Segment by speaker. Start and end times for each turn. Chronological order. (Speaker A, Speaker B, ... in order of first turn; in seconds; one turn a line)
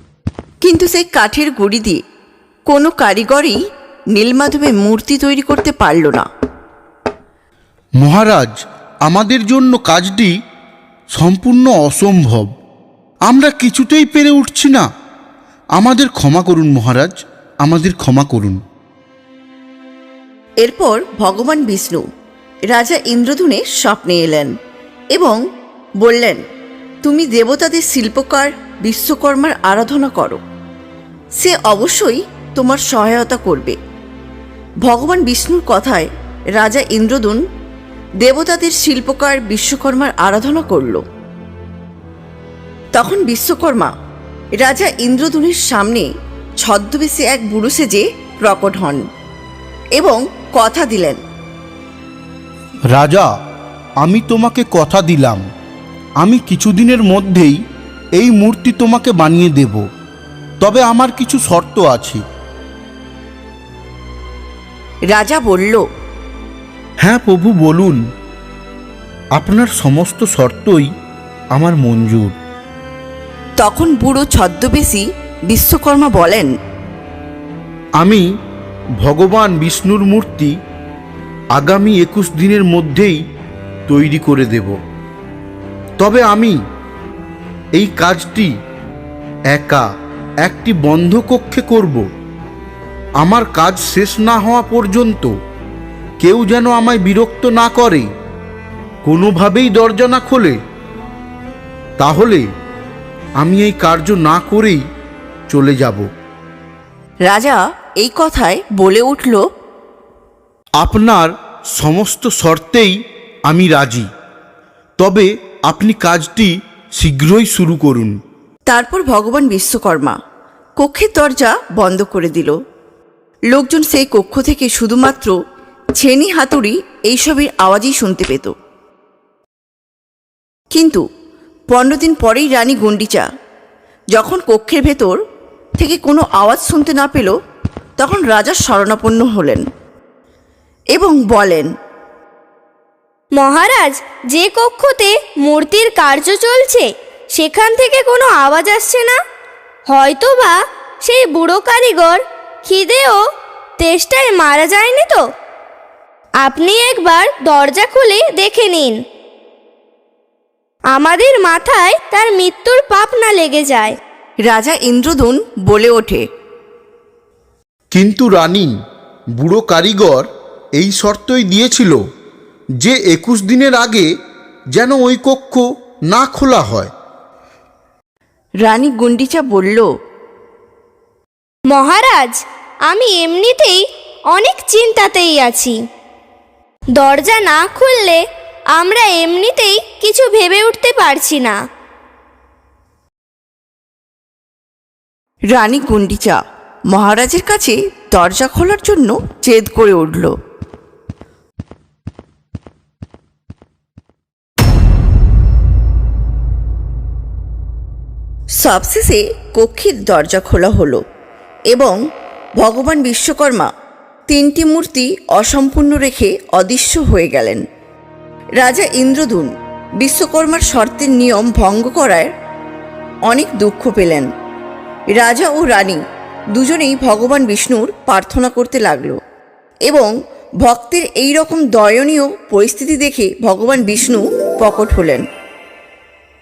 Speaker A: 0.6-2.0
Speaker A: 2.7-3.6
Speaker A: 4.2-6.3
Speaker B: 8.0-8.5
Speaker B: 9.1-10.3
Speaker B: 11.1-12.5
Speaker B: 13.3-14.8
Speaker B: 15.8-18.6
Speaker A: 20.6-22.0
Speaker A: 22.7-24.5
Speaker A: 26.0-26.4
Speaker A: 27.0-30.4
Speaker A: 31.4-33.8
Speaker A: 34.9-37.4
Speaker A: 38.2-41.0
Speaker A: 42.9-43.9
Speaker A: 44.6-46.1
Speaker A: 46.6-49.0
Speaker A: 50.0-51.2
Speaker B: 52.9-53.3
Speaker B: 54.0-55.4
Speaker B: 56.2-57.6
Speaker B: 58.1-59.8
Speaker B: 60.6-62.2
Speaker A: 65.1-65.8
Speaker B: 67.0-68.0
Speaker B: 69.3-70.9
Speaker B: 71.5-72.3
Speaker A: 73.6-76.5
Speaker B: 78.0-78.2
Speaker B: 79.0-80.5
Speaker B: 81.5-83.2
Speaker B: 83.9-84.8
Speaker B: 86.0-86.6
Speaker B: 87.8-88.5
Speaker B: 89.5-89.8
Speaker B: 90.4-92.0
Speaker B: 93.2-95.3
Speaker B: 96.2-98.1
Speaker B: 99.0-100.6
Speaker B: 102.0-102.4
Speaker B: 103.4-104.8
Speaker B: 105.5-106.0
Speaker A: 107.3-109.4
Speaker B: 110.8-113.0
Speaker B: 113.5-114.1
Speaker B: 115.0-118.1
Speaker A: 118.7-120.2
Speaker A: 120.8-122.5
Speaker A: 123.5-125.3
Speaker A: 126.0-128.5
Speaker A: 130.7-131.0
Speaker A: 131.7-133.2
Speaker A: 134.1-135.2
Speaker A: 135.8-137.3
Speaker A: 138.0-139.6
Speaker A: 140.9-141.7
Speaker C: 143.4-149.2
Speaker C: 149.9-153.2
Speaker C: 153.8-155.2
Speaker C: 156.4-158.9
Speaker C: 160.9-163.9
Speaker A: 164.4-166.2
Speaker B: 167.9-168.7
Speaker B: 169.4-172.0
Speaker B: 172.8-174.1
Speaker B: 174.8-176.9
Speaker A: 178.6-179.9
Speaker C: 181.7-182.3
Speaker C: 182.9-183.8
Speaker C: 184.3-185.7
Speaker C: 187.0-188.2
Speaker C: 188.8-191.6
Speaker A: 195.5-196.4
Speaker A: 196.9-200.3
Speaker A: 208.6-211.0
Speaker A: 211.7-211.9
Speaker A: 212.6-213.7
Speaker A: 214.3-217.6
Speaker A: 218.6-222.3
Speaker A: 223.3-224.3
Speaker A: 225.1-226.0
Speaker A: 226.5-229.2
Speaker A: 230.6-235.2